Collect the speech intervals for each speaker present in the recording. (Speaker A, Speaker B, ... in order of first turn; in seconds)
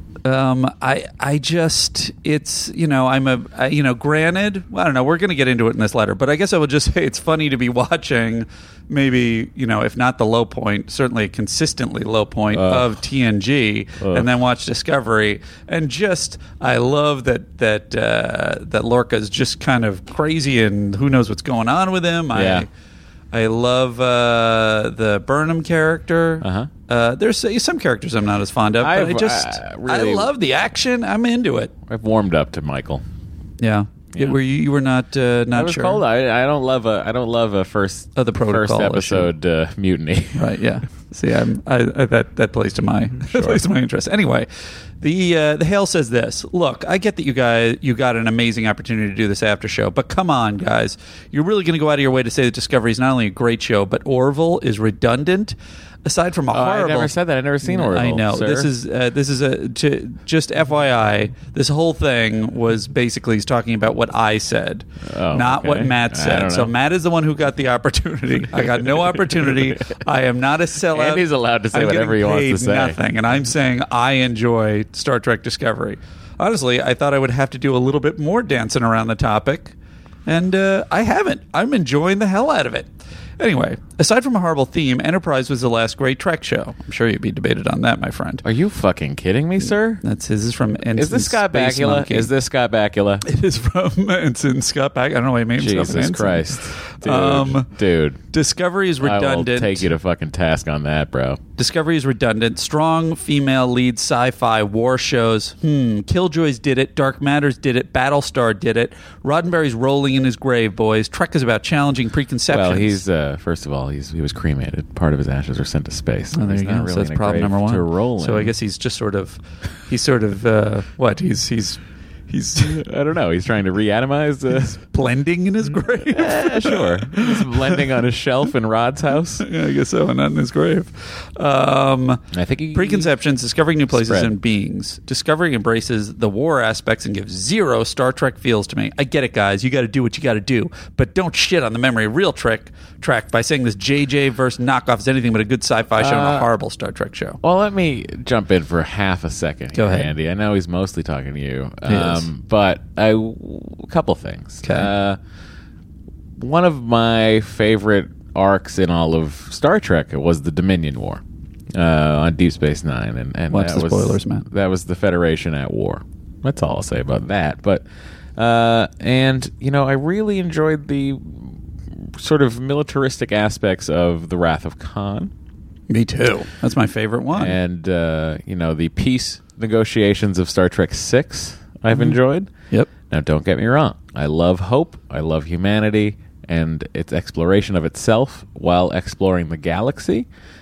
Speaker A: 0.2-22.7, 23.3-31.7, 33.6-36.0, 38.1-39.3, 40.3-44.5, 45.0-79.7, 80.2-88.4, 89.6-92.3, 93.2-97.7, 98.3-99.9, 101.6-113.0, 116.3-122.8, 124.8-127.8, 129.4-147.4, 149.7-150.1, 151.9-152.3, 154.6-154.9, 163.5-164.5, 175.9-177.6, 181.9-182.2
Speaker B: 12.5-12.9, 14.0-14.3, 22.3-22.6, 26.4-26.7, 28.8-30.3, 31.9-33.0, 35.5-40.5, 43.2-43.6, 56.5-58.7, 65.0-66.7, 68.7-70.0, 70.9-73.0, 88.4-90.0, 90.9-93.2, 95.6-98.2, 99.0-101.4, 112.5-118.5, 122.6-124.8, 126.0-129.4, 132.3-133.1, 133.9-134.3, 146.0-146.5, 147.4-155.2, 156.4-161.2, 161.7-167.8, 168.4-175.3, 177.3-182.5, 183.1-190.3